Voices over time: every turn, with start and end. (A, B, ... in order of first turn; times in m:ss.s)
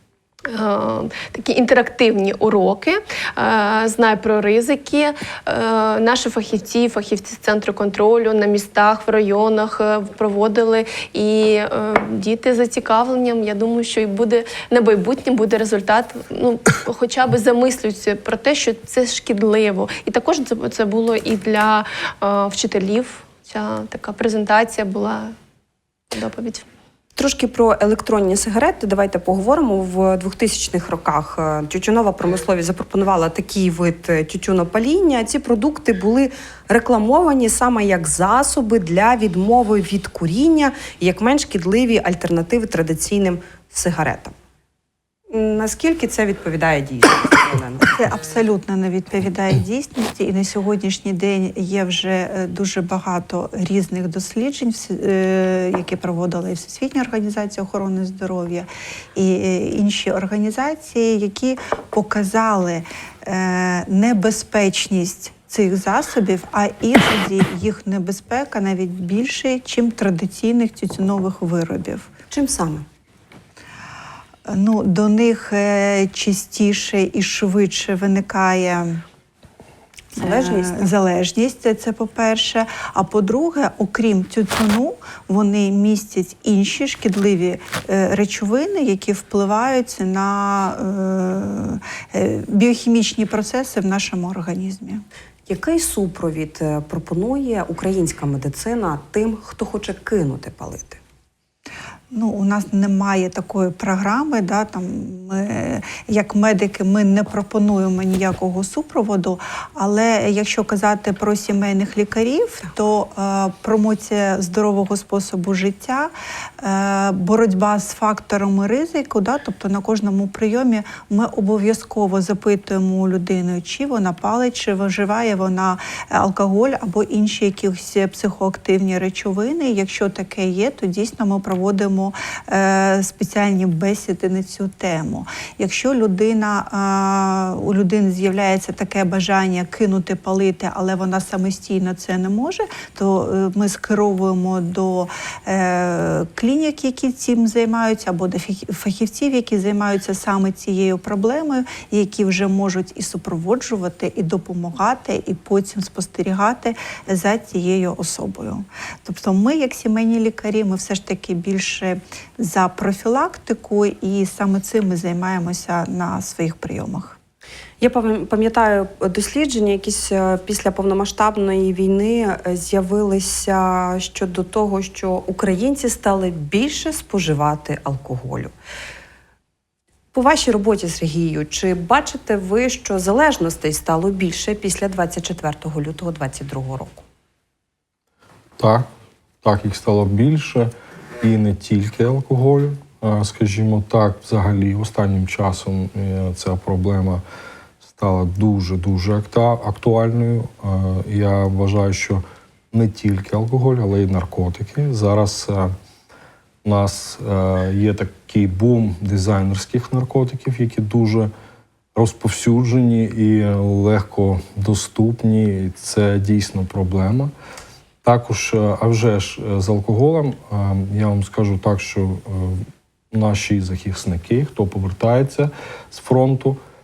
0:00.5-0:25.3 A
0:26.1-0:26.6 A
0:27.2-0:44.3 B
0:45.3-0:47.9 B
0:47.9-1:12.1 C
1:12.3-1:12.8 B
1:14.4-1:19.0 C
1:20.1-1:35.0 C
1:20.2-1:20.8 B
1:35.5-1:41.0 B
1:42.1-2:47.2 C
2:47.8-2:58.5 B
3:00.1-3:07.0 B
3:08.6-3:08.9 D
3:09.4-3:17.2 D
3:17.8-3:25.7 D
3:26.6-3:31.3 D
3:31.9-3:37.3 D
3:38.0-3:46.6 D